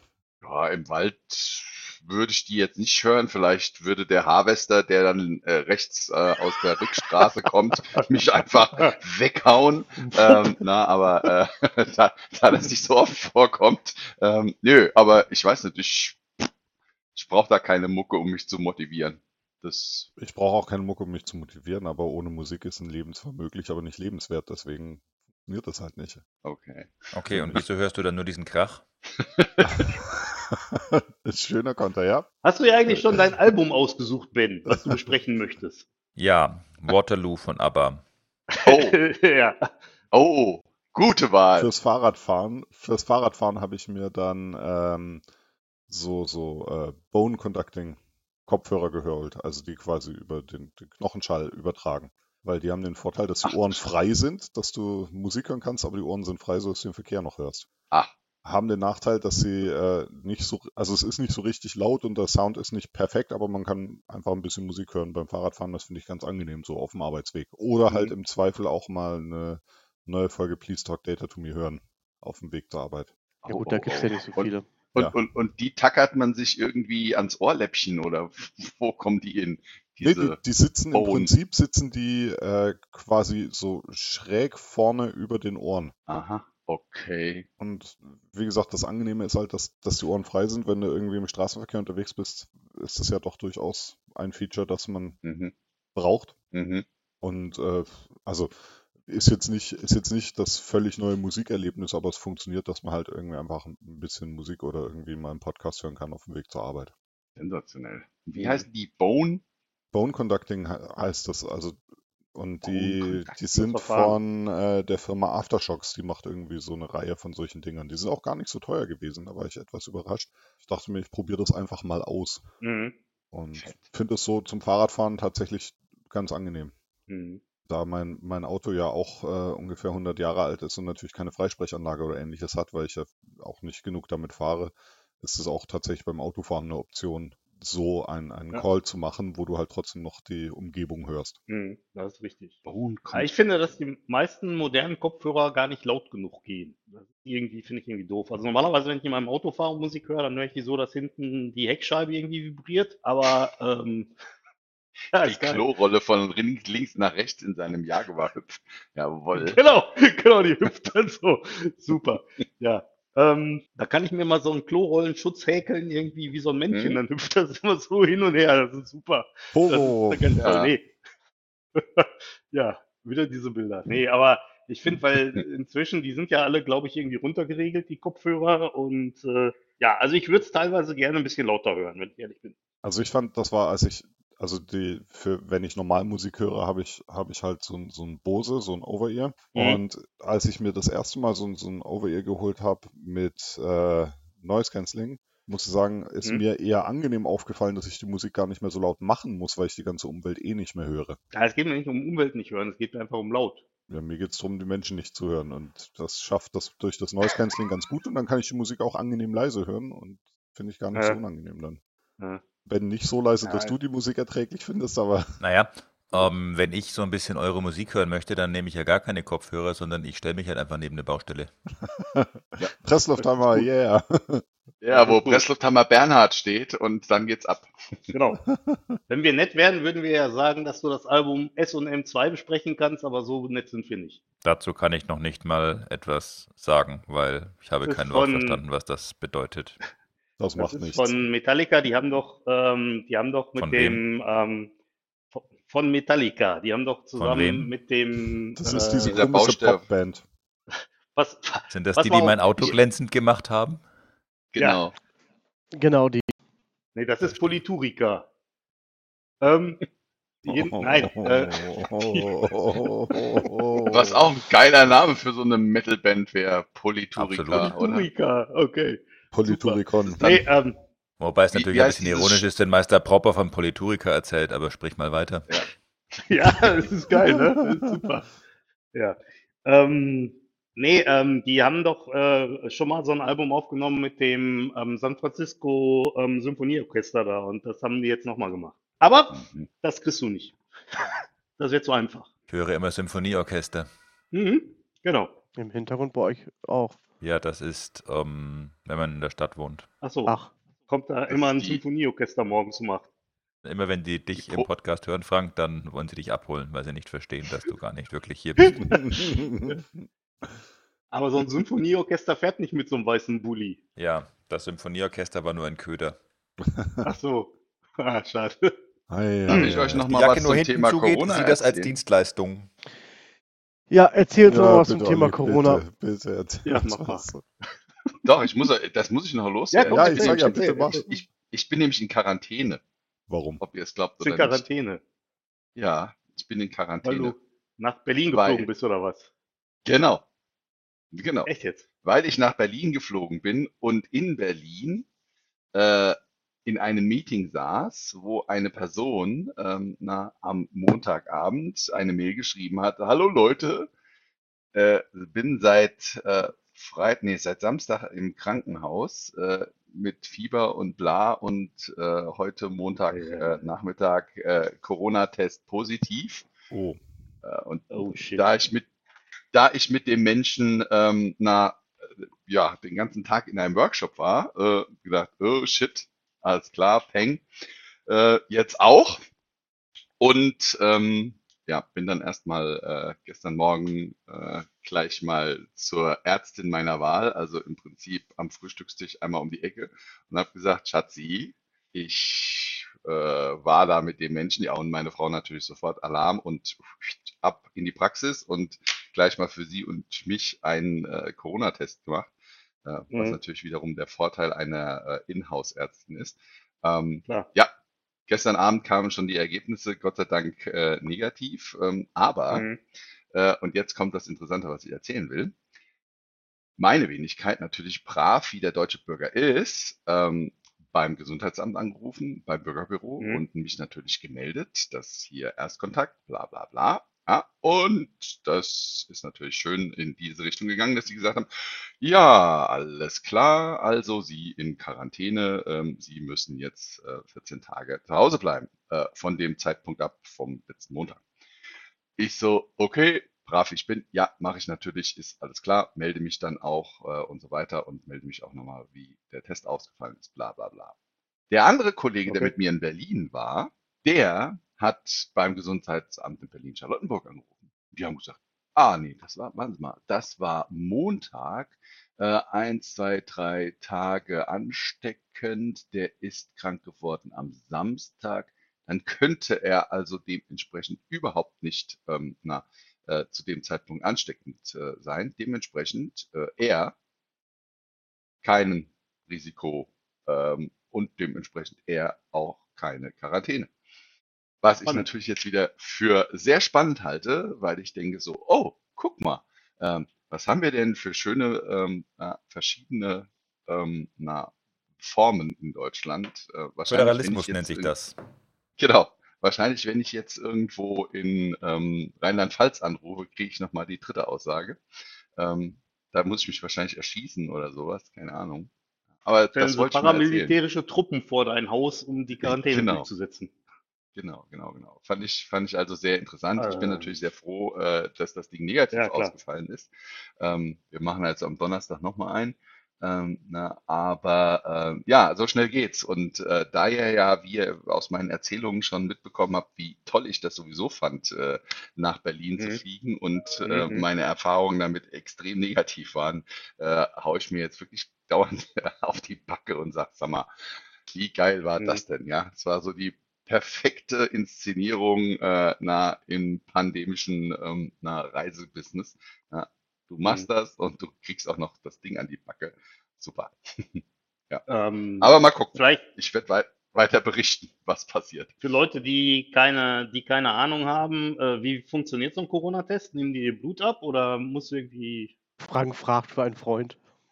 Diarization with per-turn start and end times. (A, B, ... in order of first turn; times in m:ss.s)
0:00.4-0:16.2 A
0:10.1-0:10.4 B
0:17.2-0:20.1 A
0:20.2-0:26.2 C
0:26.4-0:26.9 A
0:27.1-0:28.8 D
0:29.4-0:29.9 A
0:30.6-0:32.3 C
0:32.4-0:35.8 B
0:34.7-0:35.0 C
0:36.2-0:38.0 D
0:38.5-0:39.7 B
0:38.6-0:39.0 A
0:40.1-0:41.7 A
0:41.6-0:45.2 C
0:45.9-0:57.7 C
0:53.5-0:53.8 A
0:58.4-1:13.1 C
1:13.4-1:20.4 A
1:13.5-1:14.7 E
1:20.0-1:25.9 C
1:20.9-1:21.3 A
1:26.1-1:27.5 A
1:27.6-1:35.2 C
1:35.2-1:35.5 A
1:36.0-1:36.4 C
1:36.5-1:36.8 A
1:37.2-1:46.9 C
1:47.4-1:49.4 A
1:49.9-1:51.8 C
1:52.4-2:02.5 C
1:52.6-1:53.4 A
1:53.5-1:54.2 B
2:02.6-2:03.0 B
2:03.3-2:06.7 C
2:07.1-2:07.4 B
2:07.7-2:21.4 C
2:21.5-2:22.6 B
2:22.7-2:23.3 A
2:23.1-2:34.1 B
2:35.1-2:35.6 B
2:35.2-2:39.6 A
2:39.4-2:50.9 B
2:46.7-2:47.0 A
2:49.5-2:50.4 C
2:50.4-2:50.7 A
2:51.8-3:02.6 B
3:02.8-3:21.2 C
3:09.5-3:09.8 B
3:21.3-3:23.6 B
3:23.9-3:31.8 C
3:32.6-3:35.4 C
3:33.4-3:33.8 B
3:35.4-3:41.5 D
3:42.0-3:44.4 C
3:44.8-3:48.1 A
3:44.9-3:45.4 B
3:48.1-3:48.4 B
3:48.5-3:49.0 C
3:49.1-3:54.2 B
3:54.4-3:59.8 D
3:57.8-3:58.6 B
4:00.4-4:01.3 C
4:00.6-4:04.7 B
4:03.6-4:04.0 D
4:05.3-4:09.2 B
4:07.2-4:07.7 D
4:08.6-4:10.2 C
4:09.0-4:09.8 A
4:11.1-4:12.5 B
4:11.7-4:13.8 D
4:14.5-4:15.0 A
4:14.6-4:14.8 B
4:15.8-4:16.3 E
4:17.0-4:18.3 B
4:17.3-4:17.6 D
4:19.4-4:19.8 B
4:20.4-4:22.4 B
4:20.5-4:24.1 C
4:23.9-4:28.1 A
4:27.2-4:27.8 D
4:27.6-4:30.8 B
4:29.3-4:30.2 C
4:30.1-4:30.5 A
4:31.2-4:35.5 D
4:31.5-4:32.5 A
4:36.3-4:38.3 B
4:38.9-4:52.3 B
4:49.3-4:49.7 A
4:52.5-4:53.9 D
4:54.3-4:55.4 B
4:55.6-4:57.0 E
4:57.2-4:59.9 D
5:00.0-5:00.3 B
5:00.9-5:03.1 B
5:01.3-5:01.8 A
5:03.6-5:09.0 D
5:04.4-5:04.7 A
5:08.9-5:09.8 C
5:11.1-5:13.8 B
5:14.0-5:16.2 D
5:16.7-5:17.0 C
5:17.0-5:18.7 B
5:19.1-5:20.0 C
5:19.5-5:21.9 A
5:19.5-5:19.8 B
5:20.1-5:22.7 D
5:23.9-5:25.8 E
5:24.5-5:27.4 C
5:26.6-5:27.3 B
5:28.3-5:32.8 A
5:29.7-5:31.0 B
5:29.9-5:31.0 C
5:33.3-5:33.6 C
5:33.6-5:34.6 A
5:34.2-5:35.0 B
5:35.8-5:37.4 A
5:37.0-5:39.3 B
5:38.3-5:38.7 A
5:39.9-5:40.2 A
5:41.1-5:41.5 A
5:41.5-5:41.9 B
5:42.0-5:45.1 A
5:45.7-5:53.9 A
5:54.7-6:06.5 A
6:03.1-6:03.6 B
6:06.7-6:07.0 C
6:07.4-6:08.9 A
6:07.9-6:08.5 B
6:09.5-6:17.5 A
6:18.1-6:19.2 A
6:20.2-6:42.3 A
6:42.8-6:47.7 A
6:43.1-6:43.4 B
6:48.3-6:52.7 A
6:52.5-6:52.8 B
6:53.3-6:55.5 A
6:56.8-7:21.2 A
7:03.2-7:03.4 B
7:22.2-7:30.9 A
7:31.5-7:56.9 A
7:32.3-7:32.5 B
7:58.4-8:03.7 A
8:04.6-8:17.9 A
8:16.9-8:18.2 D
8:18.8-8:24.8 A
8:25.4-8:28.7 A
8:29.2-8:30.6 A
8:29.6-8:33.5 B
8:32.4-8:33.1 A
8:34.2-9:14.6 A
8:36.6-8:37.2 B
8:38.9-8:39.3 B
8:53.6-8:54.1 B
9:14.7-9:16.1 B
9:15.2-9:18.6 A
9:18.6-9:25.3 B
9:25.6-9:27.0 E